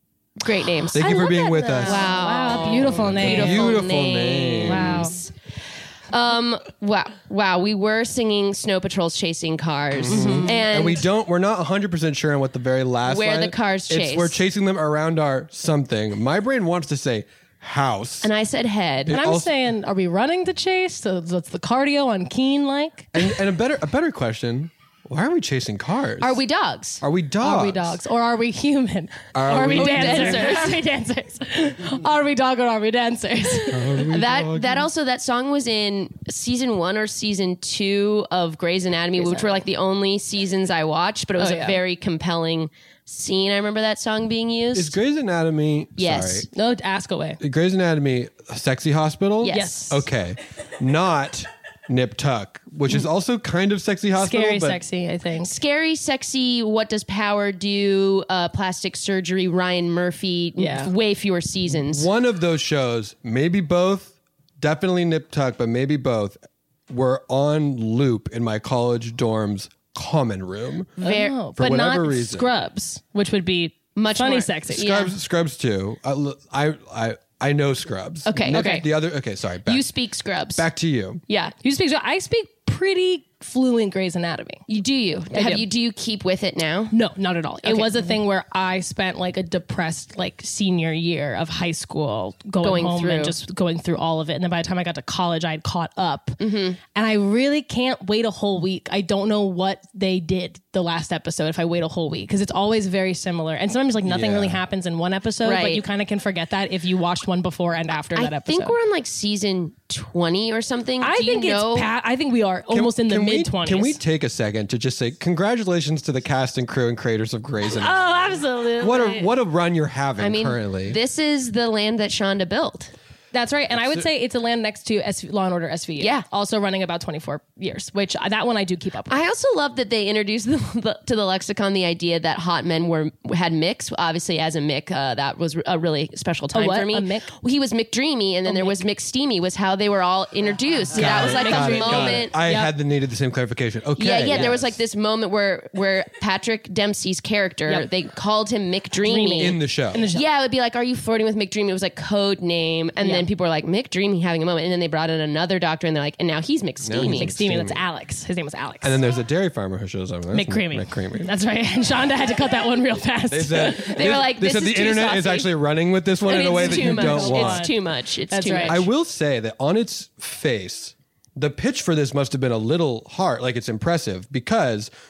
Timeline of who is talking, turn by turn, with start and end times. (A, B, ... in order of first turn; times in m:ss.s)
0:00.4-0:01.1 A
0:00.9-0:05.2 B
0:00.9-0:03.8 C
0:01.8-0:05.3 A
0:04.6-0:05.2 C
0:06.1-0:11.0 A
0:09.9-0:18.3 B
0:10.1-0:10.6 C
0:13.0-0:14.4 A
0:18.2-0:19.2 A
0:19.0-0:19.6 B
0:19.1-0:23.1 C
0:23.1-0:26.4 B
0:26.2-0:27.0 A
0:27.0-0:28.0 B
0:27.4-0:33.8 C
0:29.3-0:30.8 B
0:29.5-0:30.8 A
0:33.7-0:34.9 B
0:34.0-0:45.0 A
0:39.1-0:39.6 C
0:41.4-0:41.8 C
0:44.7-0:46.5 B
0:46.0-0:46.5 A
0:46.5-0:47.4 C
0:47.4-0:54.8 B
0:49.4-0:49.8 A
0:49.5-0:50.0 C
0:54.2-0:55.6 C
0:55.4-1:02.1 A
1:00.6-1:00.9 C
1:01.7-1:06.4 B
1:06.9-1:11.0 B
1:11.0-1:14.9 C
1:11.0-1:11.3 A
1:11.6-1:12.5 B
1:14.0-1:15.1 A
1:14.7-1:19.9 B
1:18.3-1:18.9 A
1:18.5-1:18.9 C
1:19.7-1:20.7 A
1:20.6-1:21.2 B
1:21.3-1:21.5 A
1:21.6-1:24.6 C
1:24.7-1:27.0 A
1:25.3-1:25.7 C
1:26.9-1:36.4 C
1:27.6-1:28.2 A
1:32.6-1:33.4 A
1:36.4-1:36.8 A
1:37.0-1:48.8 C
1:44.0-1:44.6 B
1:45.4-1:45.8 A
1:48.2-1:51.9 A
1:51.0-1:54.0 C
1:52.7-2:01.0 B
1:57.8-1:59.3 C
2:00.2-2:02.9 A
2:03.3-2:09.2 C
2:03.7-2:04.1 B
2:06.0-2:06.2 A
2:09.1-2:22.4 A
2:16.5-2:17.3 C
2:18.4-2:18.8 C
2:20.9-2:22.7 C
2:20.9-2:24.8 B
2:24.0-2:37.3 A
2:24.2-2:24.5 C
2:29.0-2:30.2 C
2:29.4-2:30.0 B
2:33.0-2:33.3 C
2:36.8-2:37.8 B
2:37.1-2:39.0 C
2:38.8-2:41.3 B
2:40.3-2:44.2 C
2:43.3-2:47.7 B
2:43.7-2:45.5 A
2:46.2-2:48.9 A
2:46.4-2:47.8 C
2:48.3-2:48.8 C
2:48.6-2:54.9 B